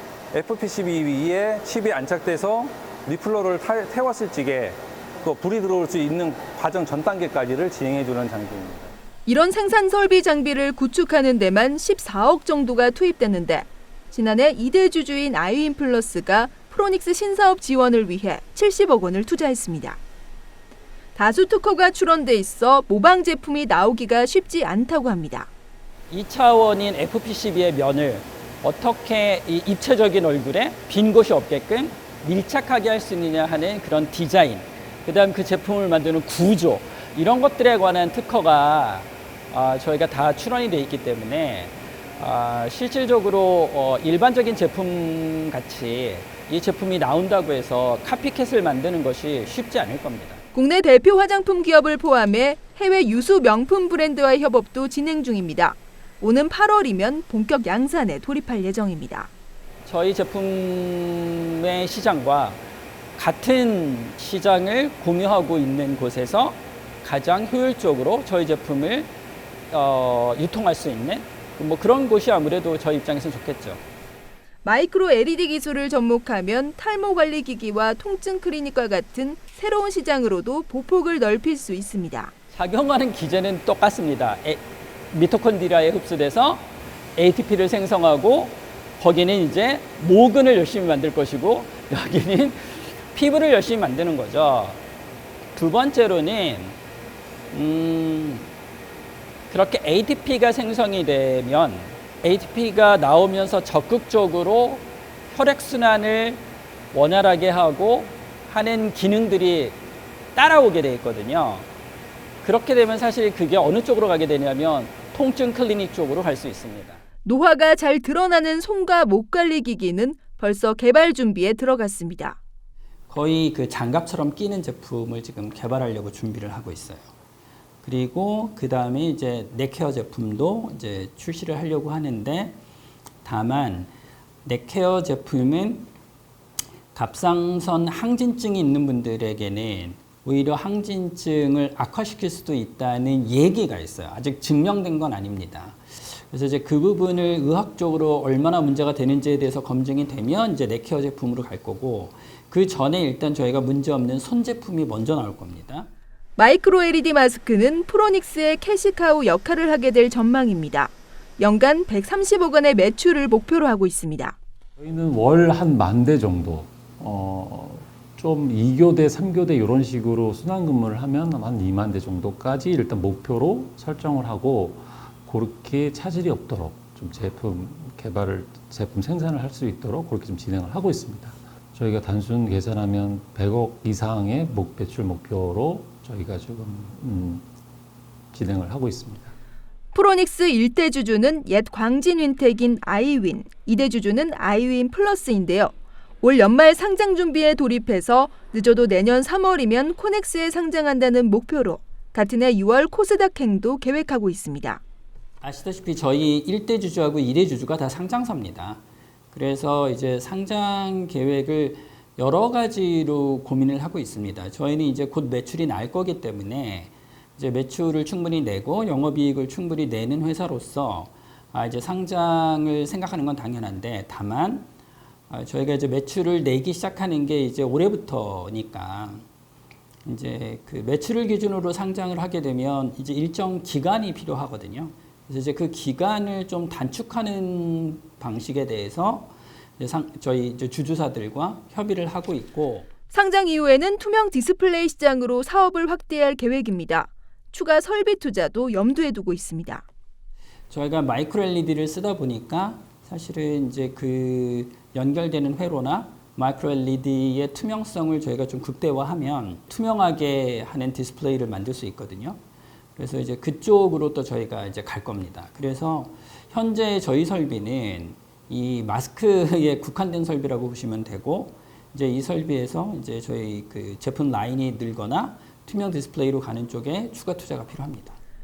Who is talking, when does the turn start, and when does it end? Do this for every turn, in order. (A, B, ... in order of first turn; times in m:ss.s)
0:00.3-0:08.9 A
0:09.3-0:20.0 B
0:21.2-0:25.5 B
0:26.1-0:50.4 C
0:50.5-0:59.3 B
0:59.9-1:02.6 C
1:03.2-1:09.1 C
1:09.7-1:13.8 C
1:14.6-1:22.3 B
1:22.5-1:34.8 C
1:35.6-1:36.8 C
1:37.5-1:38.5 C
1:39.5-1:49.8 C
1:50.4-1:51.7 C
1:52.4-1:57.0 C
1:57.2-2:02.4 B
2:03.1-2:07.1 C
2:07.8-2:12.6 C
2:13.2-2:13.9 C
2:14.4-2:15.9 C
2:17.0-2:35.9 C
2:36.4-2:44.4 B
2:44.8-3:07.5 D
3:08.3-3:09.3 D
3:09.9-3:24.8 B
3:25.4-3:28.8 C
3:29.3-3:44.7 C
3:45.3-3:49.2 C
3:50.1-4:02.9 C
4:03.1-4:09.8 B
4:10.7-4:22.4 C
4:23.0-4:38.2 C